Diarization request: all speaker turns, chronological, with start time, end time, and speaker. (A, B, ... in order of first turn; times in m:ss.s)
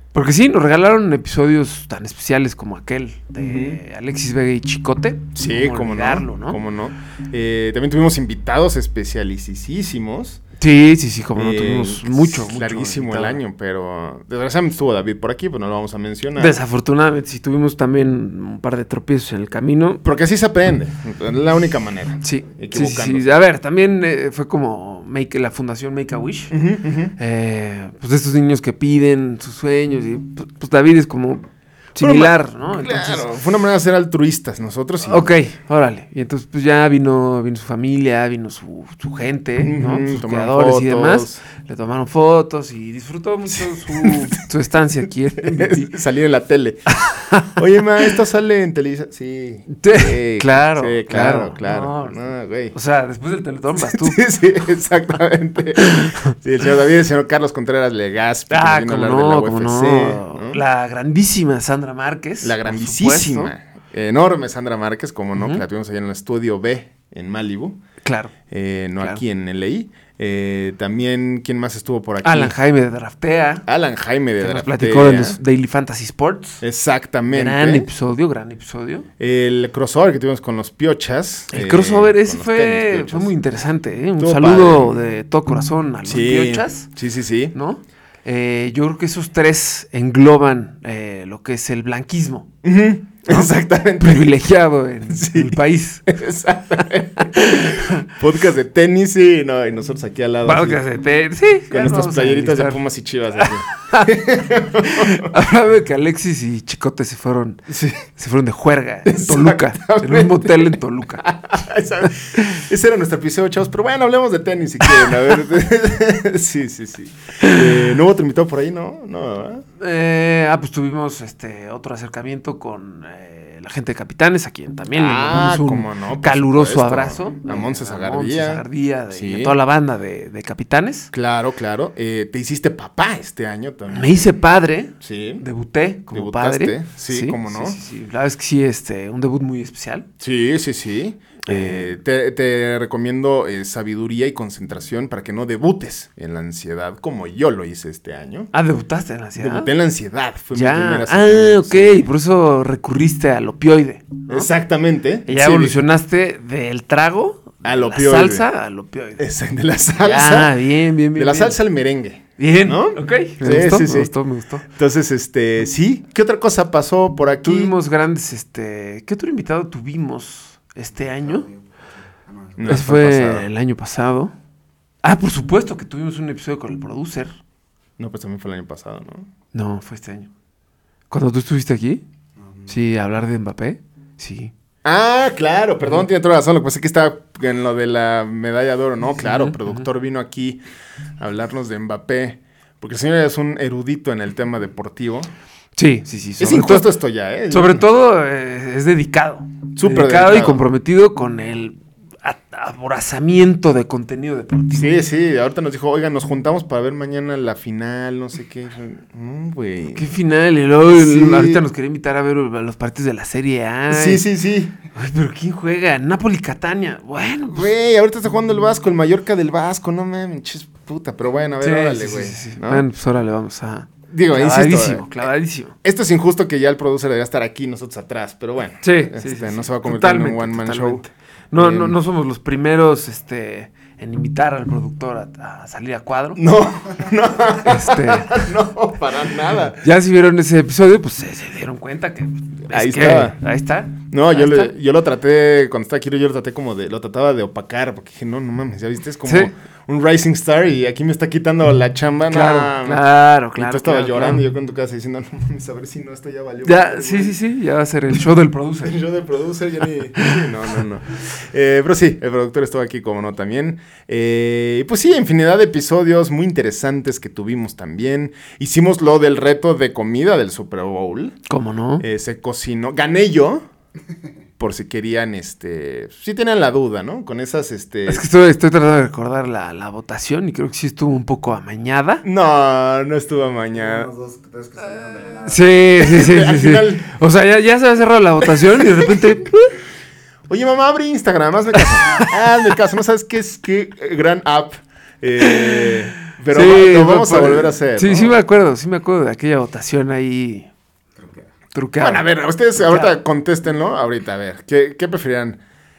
0:00.1-0:06.6 A
0:03.4-0:03.8 B
0:05.4-0:10.4 B
0:10.6-0:13.4 A
0:11.4-0:16.6 B
0:16.4-0:20.0 A
0:20.0-0:23.2 B
0:22.2-0:26.6 A
0:26.5-0:27.1 B
0:27.2-0:33.2 A
0:32.0-0:35.3 B
0:35.1-0:45.9 A
0:39.6-0:41.4 B
0:43.5-0:44.4 B
0:45.4-0:46.9 B
0:47.0-0:47.6 A
0:47.5-0:52.7 B
0:49.8-0:54.2 A
0:53.8-1:00.6 B
0:55.8-0:56.3 A
0:58.5-1:03.5 A
1:02.4-1:07.8 B
1:05.4-1:05.6 A
1:08.0-1:08.3 A
1:08.5-1:12.6 B
1:12.2-1:13.6 A
1:13.6-1:15.4 B
1:14.4-1:16.6 A
1:16.6-1:17.9 B
1:17.3-1:19.1 A
1:19.2-1:23.4 B
1:21.5-1:26.9 A
1:24.2-1:25.0 B
1:26.0-1:27.5 B
1:27.5-1:32.5 A
1:32.6-1:34.3 B
1:34.0-1:36.1 A
1:35.1-1:40.8 B
1:37.3-1:38.1 A
1:40.4-1:42.8 A
1:41.7-1:45.4 B
1:43.4-1:44.2 A
1:44.8-1:51.2 A
1:47.7-1:48.0 B
1:49.0-1:59.6 B
1:52.4-1:52.6 A
1:59.8-2:11.1 A
2:04.9-2:09.6 B
2:11.1-2:14.3 B
2:13.9-2:20.1 A
2:15.0-2:15.4 B
2:16.1-2:17.8 B
2:20.2-2:28.5 B
2:21.4-2:21.9 A
2:28.5-2:29.7 A
2:29.4-2:32.1 B
2:30.5-2:34.5 A
2:34.3-2:35.8 B
2:35.2-2:39.2 A
2:37.6-2:38.4 B
2:39.2-2:40.6 B
2:40.0-2:41.6 A
2:41.1-2:44.1 B
2:42.4-2:44.6 A
2:44.7-2:47.7 B
2:47.4-2:51.4 A
2:50.9-2:52.9 C
2:52.6-2:53.5 B
2:52.6-2:54.3 A
2:55.0-2:57.3 A
2:58.0-2:59.3 B
2:59.5-3:00.3 A
3:01.1-3:02.0 A
3:02.4-3:02.8 C
3:02.7-3:04.5 A
3:04.8-3:10.6 B
3:09.2-3:09.9 A
3:11.2-3:15.3 B
3:15.8-3:16.9 A
3:16.4-3:17.8 B
3:17.5-3:24.9 A
3:19.8-3:20.6 B
3:24.7-3:30.1 B
3:30.0-3:34.2 A
3:30.9-3:31.6 B
3:33.9-3:34.7 B
3:34.9-3:37.7 A
3:37.5-3:42.8 B
3:41.6-3:45.8 A
3:44.1-3:45.3 B
3:45.8-3:52.0 B
3:48.8-3:56.4 A
3:56.4-3:59.8 B
3:57.6-3:58.5 A
3:59.8-4:04.7 A
4:02.7-4:03.4 B
4:04.0-4:13.0 B
4:09.2-4:09.5 A
4:12.3-4:14.4 A
4:13.6-4:17.4 B
4:16.6-4:19.0 A
4:18.8-4:31.4 B
4:20.2-4:20.4 A
4:31.5-4:32.0 A
4:32.0-4:33.6 B
4:34.6-4:38.2 B
4:38.1-4:42.2 A
4:42.2-4:44.1 B
4:43.7-4:45.9 C
4:45.4-4:49.7 A
4:46.0-4:47.1 B
4:48.4-4:49.4 B
4:50.5-4:58.4 B
4:51.7-4:52.3 A
4:55.4-4:55.9 A
4:56.5-5:00.7 A
5:01.2-5:01.6 C
5:01.7-5:03.2 A
5:02.0-5:05.6 B